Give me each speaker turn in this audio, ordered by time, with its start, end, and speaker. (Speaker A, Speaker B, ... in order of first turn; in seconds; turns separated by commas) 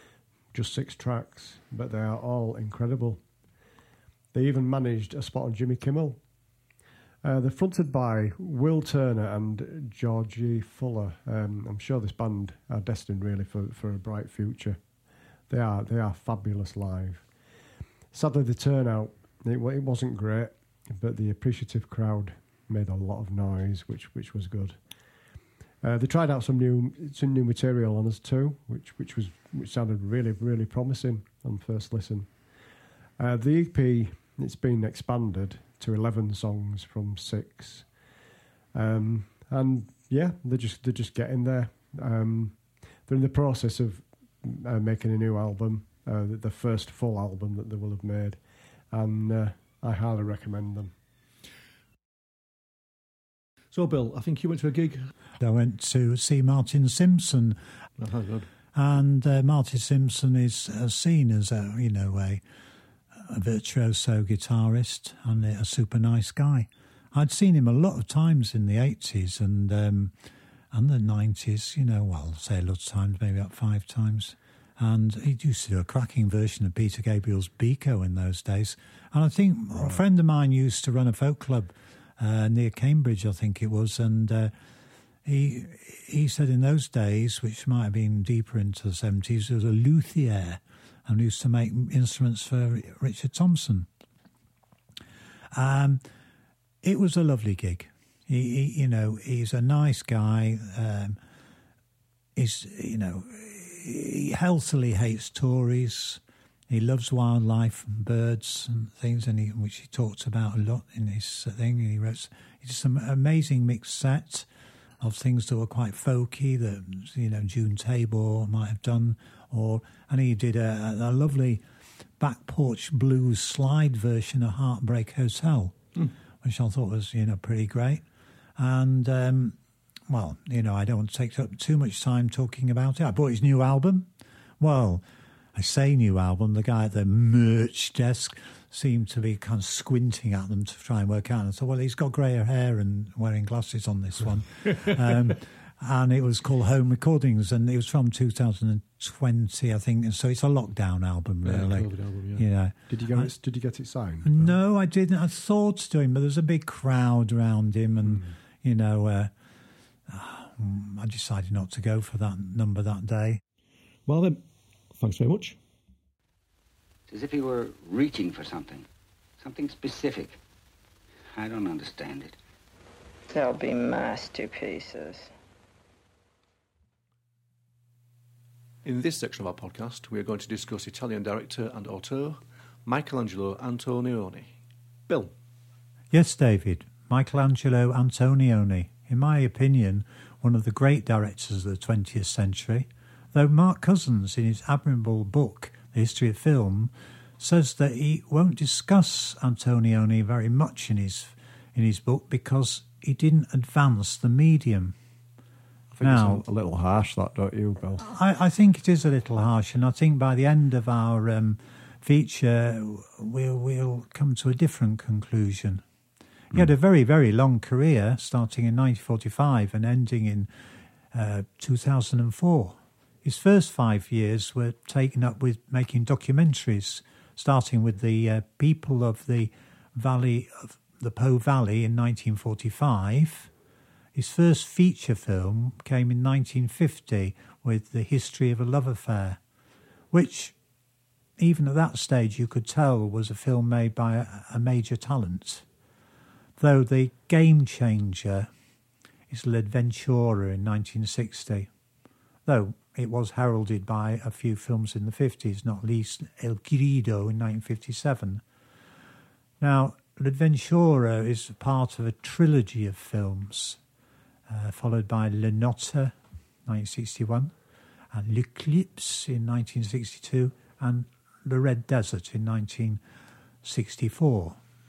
Speaker A: 0.5-3.2, Speaker A: 4.3-6.2, Speaker A: 7.2-14.8, Speaker A: 15.5-17.3, Speaker A: 18.1-24.8, Speaker A: 25.8-32.3, Speaker A: 33.2-37.9, Speaker A: 38.7-50.9, Speaker B: 53.7-55.1, Speaker C: 55.4-57.6, Speaker B: 58.0-58.5, Speaker C: 58.7-62.4, Speaker C: 63.1-70.1, Speaker C: 70.7-84.5, Speaker C: 85.2-93.9, Speaker C: 95.5-96.0, Speaker C: 96.8-101.2, Speaker C: 102.4-114.5, Speaker C: 115.0-121.6, Speaker C: 122.2-125.8, Speaker C: 126.4-128.0, Speaker C: 128.6-153.3, Speaker B: 144.7-144.9, Speaker B: 151.4-152.5, Speaker A: 152.9-154.5, Speaker C: 154.2-159.3, Speaker A: 158.1-158.3, Speaker C: 160.1-163.4, Speaker B: 164.1-164.4, Speaker B: 164.9-165.6, Speaker D: 167.1-168.9, Speaker D: 169.4-170.4, Speaker D: 171.3-172.4, Speaker E: 173.3-175.3, Speaker B: 178.8-184.5, Speaker B: 185.1-185.3, Speaker C: 186.1-205.0, Speaker A: 205.9-208.0, Speaker C: 206.0-206.4, Speaker C: 208.0-215.8, Speaker C: 216.5-220.5, Speaker C: 221.1-233.5, Speaker C: 234.1-239.4, Speaker C: 240.1-240.6, Speaker C: 241.4-245.7, Speaker C: 246.6-248.5, Speaker C: 249.3-251.7, Speaker C: 252.5-258.4, Speaker C: 259.6-263.8, Speaker C: 264.5-267.5, Speaker C: 268.1-273.0, Speaker C: 273.6-274.6